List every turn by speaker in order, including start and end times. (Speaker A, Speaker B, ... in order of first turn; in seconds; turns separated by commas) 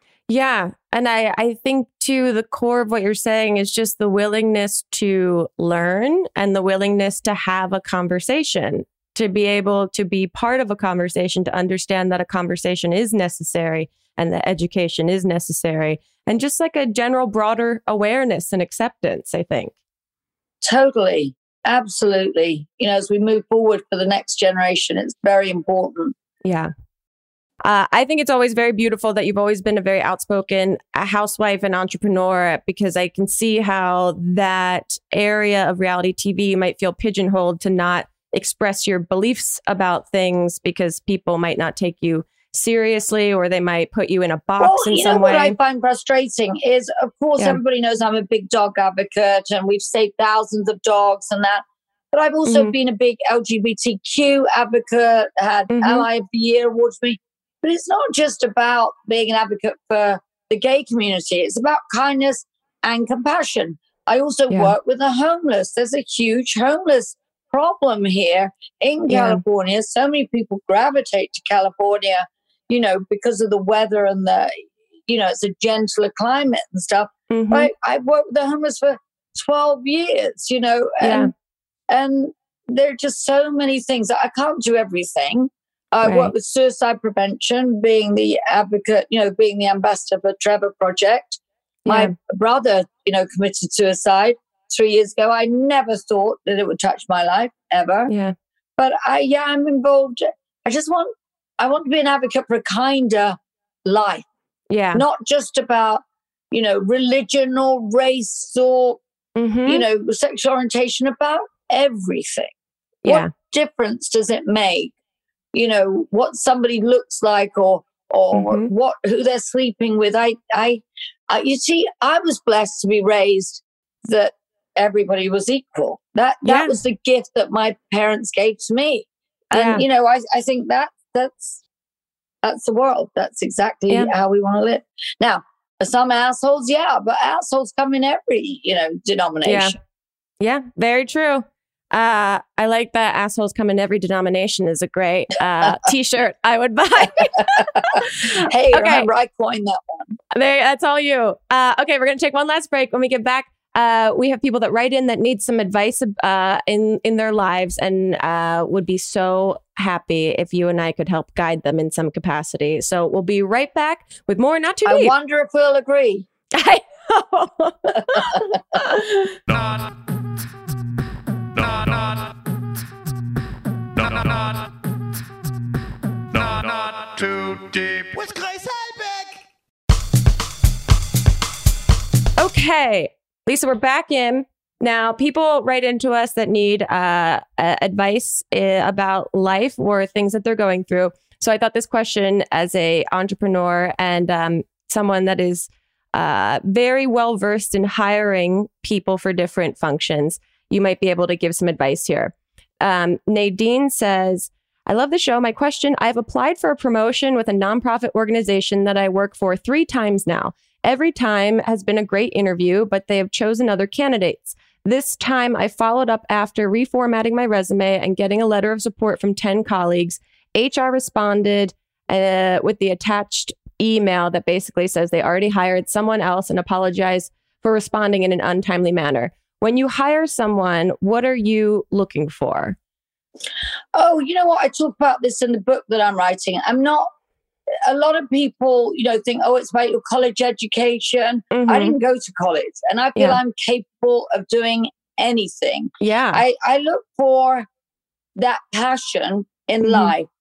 Speaker A: 0.3-19.7, Speaker B: 20.6-26.1, Speaker A: 26.4-26.7, Speaker A: 27.6-45.5, Speaker B: 44.6-81.3, Speaker A: 52.5-52.7, Speaker A: 55.7-56.1, Speaker A: 64.5-64.7, Speaker A: 69.1-69.4, Speaker A: 77.3-77.7, Speaker A: 81.0-81.3, Speaker B: 81.9-98.1, Speaker A: 86.0-86.3, Speaker A: 91.8-92.1, Speaker A: 98.1-98.3, Speaker B: 98.8-104.3, Speaker A: 104.7-105.0, Speaker B: 104.9-109.0, Speaker A: 109.3-109.8, Speaker B: 109.7-112.5, Speaker A: 113.0-113.3, Speaker B: 113.0-114.9, Speaker B: 115.5-131.6, Speaker A: 118.3-118.7, Speaker A: 126.5-126.8, Speaker A: 129.5-129.8, Speaker B: 132.4-139.8, Speaker A: 139.4-139.7, Speaker A: 140.4-149.1, Speaker B: 147.0-150.2, Speaker A: 150.3-165.1, Speaker B: 164.8-166.2, Speaker A: 166.5-169.4, Speaker B: 167.9-168.4, Speaker C: 169.5-169.9, Speaker C: 171.5-172.4, Speaker C: 173.9-174.7, Speaker C: 176.3-179.4, Speaker A: 182.4-232.8, Speaker B: 233.9-237.1, Speaker B: 237.8-247.7, Speaker A: 241.5-242.0, Speaker A: 246.0-246.4, Speaker B: 248.3-250.3, Speaker A: 249.8-250.1